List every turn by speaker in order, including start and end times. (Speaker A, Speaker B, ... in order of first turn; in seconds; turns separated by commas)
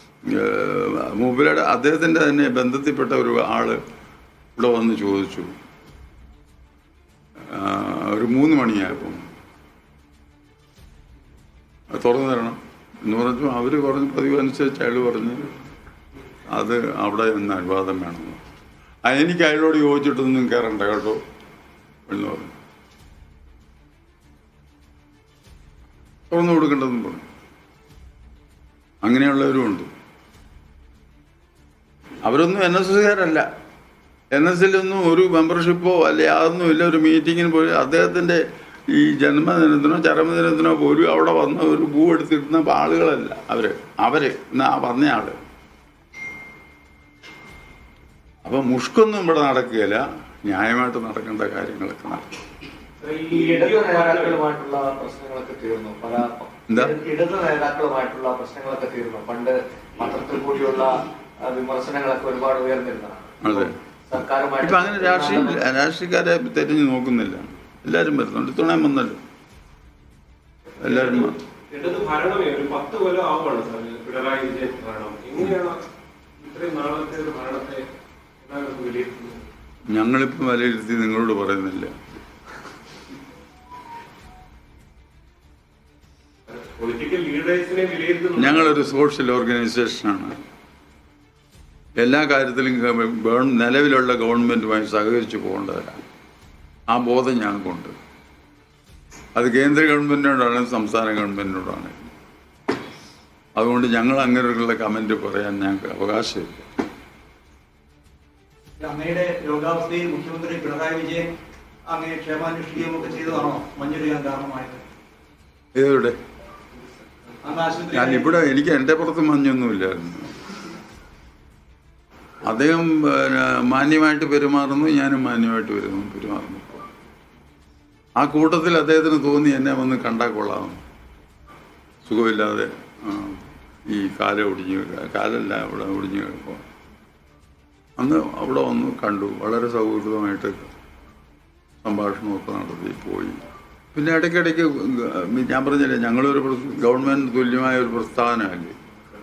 Speaker A: 0.3-3.8, Speaker A: 4.5-5.5, Speaker A: 7.4-9.3, Speaker A: 11.9-15.5, Speaker A: 16.5-18.4, Speaker A: 19.1-21.2, Speaker A: 22.1-22.6, Speaker A: 26.3-27.2, Speaker A: 29.0-29.9, Speaker A: 32.2-33.5, Speaker A: 34.3-45.4, Speaker A: 48.4-52.2, Speaker B: 53.0-54.5, Speaker C: 53.3-65.6, Speaker A: 56.7-57.0, Speaker A: 63.4-63.7, Speaker A: 64.6-69.2, Speaker A: 70.8-71.4, Speaker B: 70.8-77.8, Speaker B: 78.4-79.4, Speaker A: 79.9-81.9, Speaker B: 86.5-88.9, Speaker A: 88.3-90.4, Speaker A: 92.0-96.0, Speaker A: 96.9-98.0, Speaker A: 99.3-102.0, Speaker A: 103.6-106.6, Speaker D: 108.8-111.2, Speaker D: 111.9-114.8, Speaker A: 115.7-116.2, Speaker D: 117.4-118.3, Speaker A: 117.9-120.4, Speaker A: 122.4-126.9, Speaker A: 128.2-130.8, Speaker A: 132.1-136.6, Speaker A: 138.0-140.7, Speaker A: 141.8-143.4, Speaker A: 143.9-148.8